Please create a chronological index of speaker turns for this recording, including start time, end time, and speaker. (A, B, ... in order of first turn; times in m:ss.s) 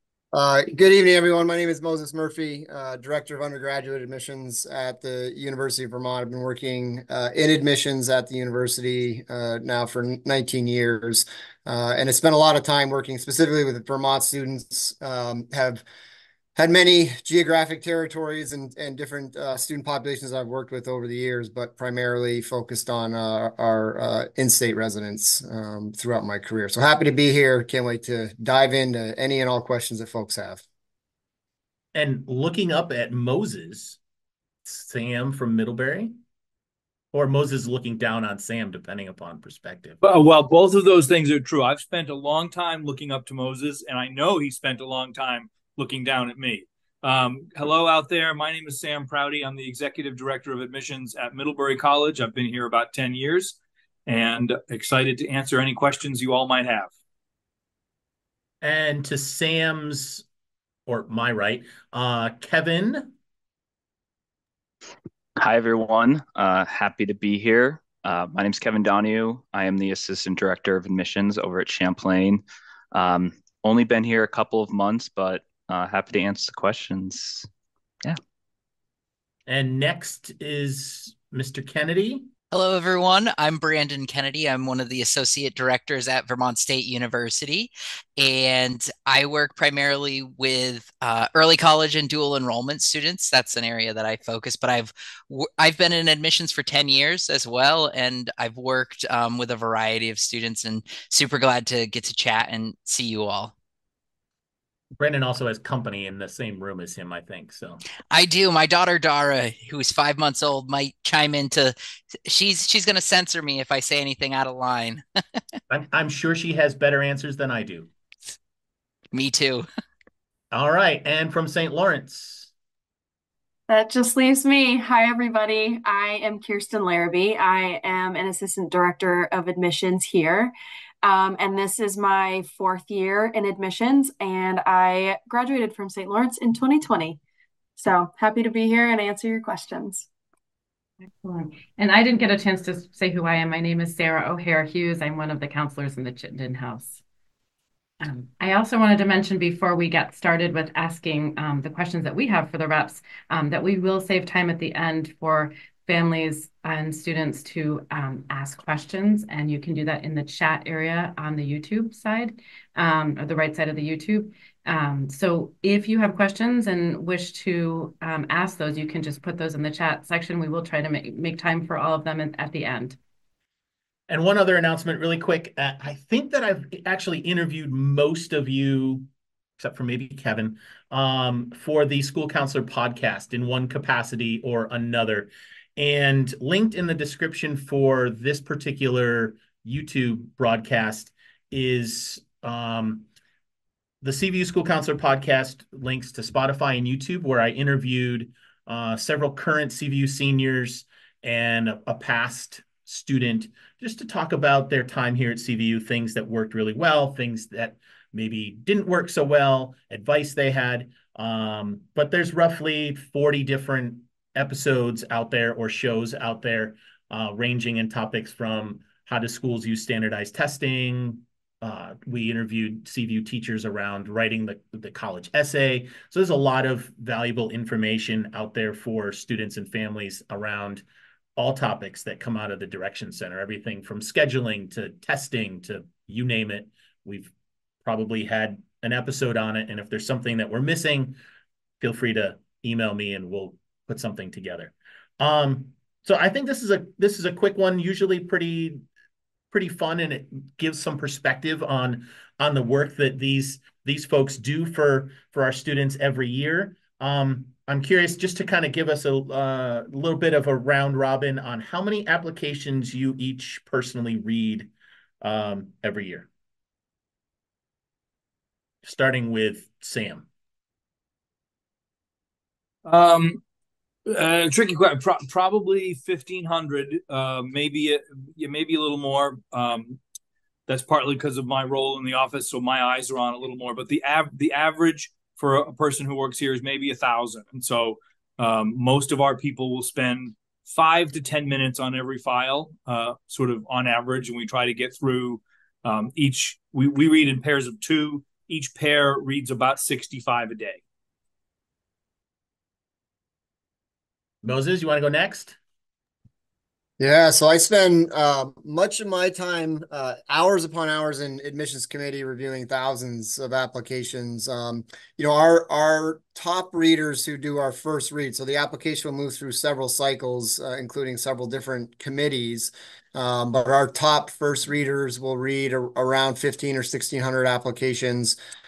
0:00.3-0:15.8 A
0:16.6-0:30.6 A
0:31.9-0:34.0 B
0:34.6-0:36.2 B
0:37.1-0:40.0 B
0:40.0-0:56.9 C
0:58.6-1:00.2 B
1:00.9-1:03.1 B
1:05.4-1:12.4 D
1:12.9-1:17.5 D
1:19.5-1:22.3 B
1:22.5-1:43.5 E
1:45.0-1:47.8 B
1:48.1-1:51.8 E
1:52.3-1:55.0 E
1:55.7-1:57.9 B
1:59.1-1:59.6 E
2:00.5-2:02.5 B
2:03.7-2:17.2 F
2:17.8-2:20.0 F
2:21.2-2:27.0 G
2:28.0-2:53.0 G
2:54.1-2:59.1 B
2:59.6-3:13.0 B
3:14.0-3:50.8 B
3:51.4-3:57.3 B
3:57.8-4:01.2 B
4:01.8-4:08.8 B
4:09.5-4:24.7 B
4:25.2-4:26.3 B
4:28.8-4:30.3 B
4:32.8-4:33.4 C
4:34.0-4:40.0 C
4:40.7-5:00.8 C
5:04.4-5:05.6 B
5:07.0-5:28.4 A